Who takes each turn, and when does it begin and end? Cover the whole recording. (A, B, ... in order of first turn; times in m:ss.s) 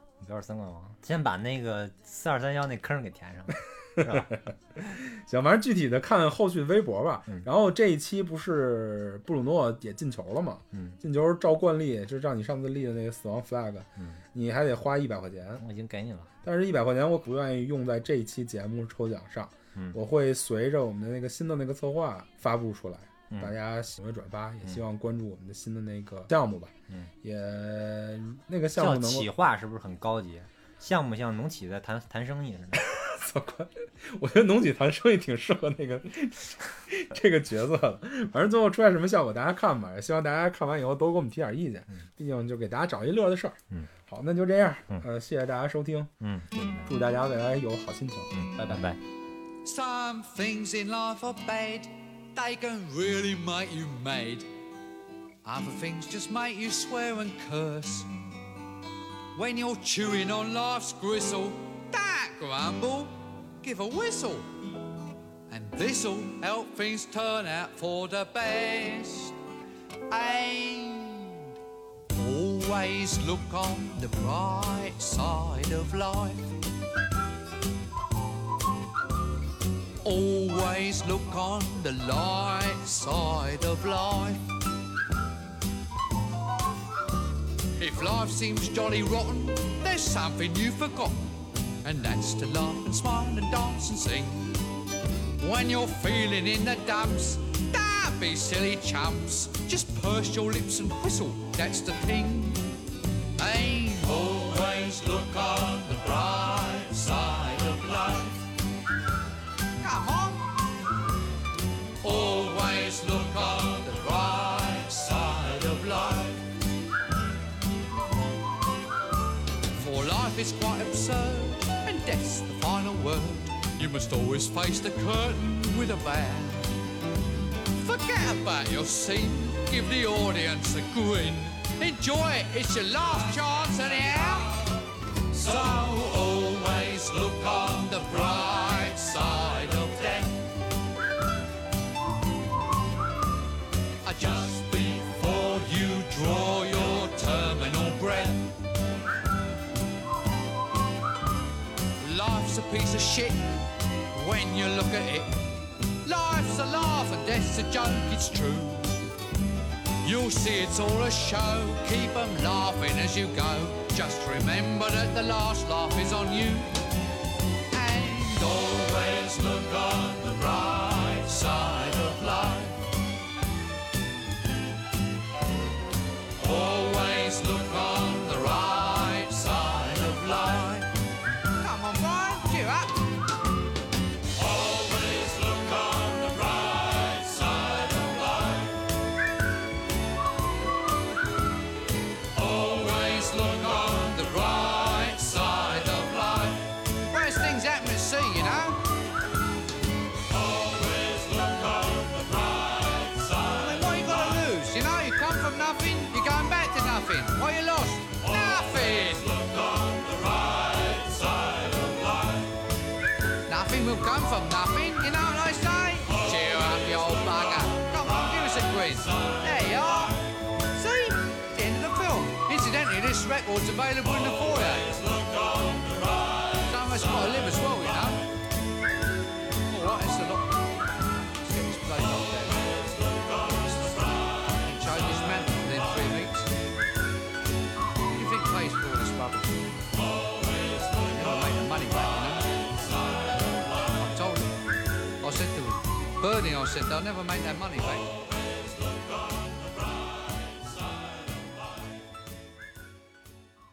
0:00.2-0:04.3 A
0:04.0-0:15.6 B
0:10.7-0:11.0 A
0:14.0-0:14.2 A
0:15.6-0:16.3 A
0:16.4-0:29.3 B
0:23.3-0:23.6 A
0:28.8-0:32.9 A
0:32.8-0:46.1 B
0:46.2-0:46.9 A
0:46.8-0:48.9 B
0:48.3-0:49.0 A
0:49.6-0:54.5 C
0:55.4-0:58.1 C
0:59.3-1:04.6 C
1:05.5-1:09.4 C
1:10.1-1:11.5 C
1:12.1-1:16.6 C
1:20.0-1:24.4 C
1:27.8-1:34.6 C
1:35.4-1:42.7 C
1:43.4-1:48.4 C
1:49.8-1:50.6 C
1:52.0-1:56.4 C
1:59.8-2:06.8 C
2:07.7-2:14.7 C
2:15.3-2:20.4 C
2:24.0-2:28.4 C
2:32.0-2:35.5 C
2:36.0-2:39.0 C
2:40.0-2:46.8 C
2:47.7-2:52.9 C
2:56.4-3:00.9 C
3:01.6-3:03.1 C
3:04.7-3:08.7 C
3:12.4-3:18.9 C
3:20.8-3:32.1 C
3:33.5-3:48.3 C
3:49.6-3:56.5 C
3:58.1-3:59.9 C
4:00.7-4:04.6 C
4:05.2-4:08.3 C